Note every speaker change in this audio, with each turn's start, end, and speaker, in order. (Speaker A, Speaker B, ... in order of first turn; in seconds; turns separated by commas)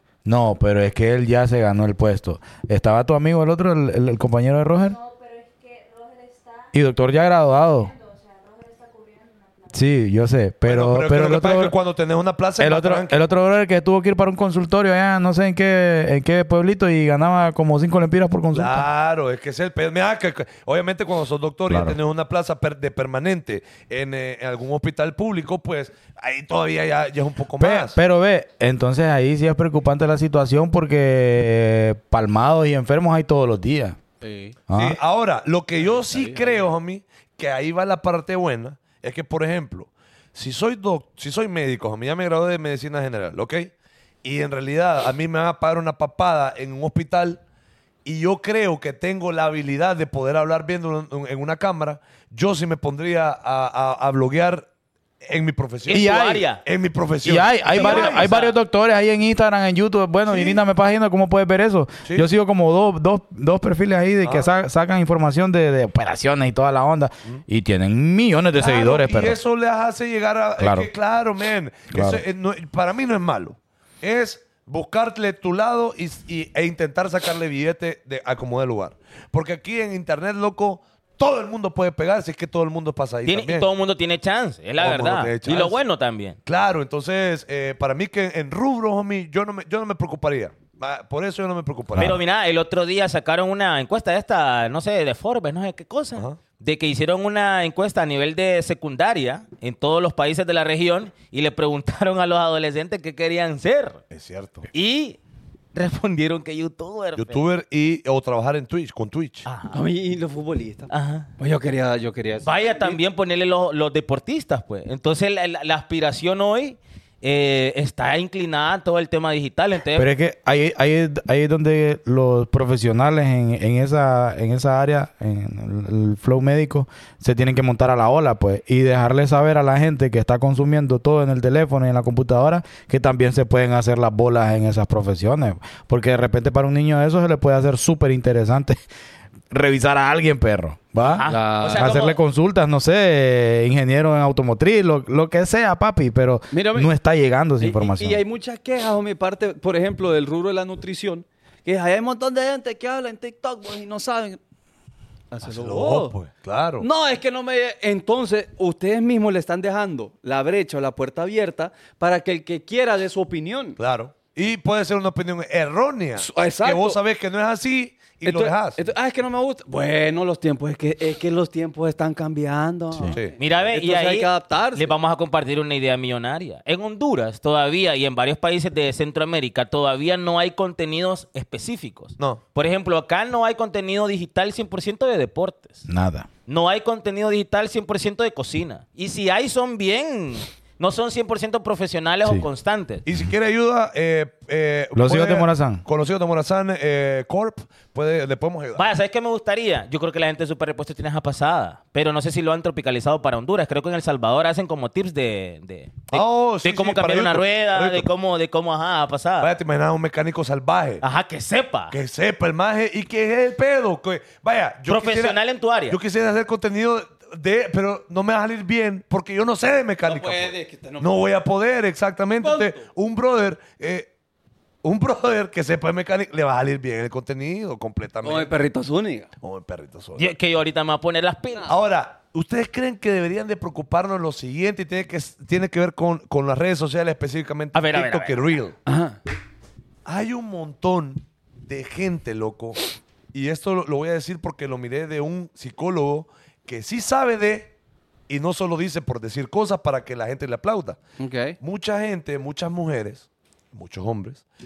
Speaker A: 0.3-5.0, Speaker B: 4.9-6.7, Speaker A: 6.7-7.9, Speaker B: 7.8-9.8, Speaker A: 9.7-11.8, Speaker C: 10.7-13.2, Speaker A: 12.6-18.9, Speaker C: 18.5-28.0, Speaker A: 21.7-22.0, Speaker A: 27.6-34.0, Speaker D: 34.2-34.6, Speaker A: 34.7-35.0, Speaker C: 34.7-43.7, Speaker D: 35.9-36.6, Speaker C: 44.2-47.4, Speaker C: 48.0-54.7, Speaker C: 55.2-58.3, Speaker E: 55.9-56.6, Speaker A: 55.9-56.5, Speaker A: 57.2-69.4, Speaker E: 57.7-58.6, Speaker C: 60.3-60.6, Speaker C: 64.2-64.5, Speaker C: 68.6-83.7, Speaker A: 70.6-70.9, Speaker A: 71.9-72.2, Speaker E: 83.3-86.4, Speaker C: 84.8-85.8, Speaker C: 86.5-92.2, Speaker E: 92.0-104.0, Speaker C: 104.1-104.7, Speaker E: 104.7-105.2, Speaker E: 105.7-107.5, Speaker C: 107.2-109.5, Speaker E: 109.5-109.8, Speaker D: 109.7-113.0, Speaker E: 110.9-111.3, Speaker E: 112.4-120.1, Speaker A: 120.0-138.8, Speaker A: 139.5-148.2, Speaker E: 141.1-142.2, Speaker D: 141.3-141.9, Speaker D: 146.5-146.9, Speaker D: 147.6-154.4, Speaker D: 155.3-156.2, Speaker C: 155.5-156.9, Speaker D: 156.8-163.8, Speaker C: 163.8-168.8, Speaker D: 166.2-167.0, Speaker D: 168.2-174.9, Speaker C: 173.1-173.4, Speaker E: 173.4-185.9, Speaker A: 185.9-186.3, Speaker E: 186.5-193.0, Speaker C: 193.1-198.9, Speaker A: 195.0-195.8, Speaker E: 198.8-209.5, Speaker C: 206.1-208.1, Speaker C: 209.4-211.0, Speaker E: 211.0-212.0, Speaker C: 211.9-215.4, Speaker E: 214.9-216.0, Speaker C: 215.9-224.1, Speaker D: 220.1-221.2, Speaker D: 222.4-222.8, Speaker C: 224.8-228.5, Speaker D: 228.2-229.3, Speaker C: 229.4-230.3, Speaker E: 230.2-231.7, Speaker C: 231.7-238.8, Speaker E: 237.8-238.5, Speaker D: 238.9-239.2, Speaker C: 240.1-242.8, Speaker C: 243.3-247.7, Speaker C: 248.3-251.0, Speaker D: 251.2-251.6, Speaker C: 251.6-254.4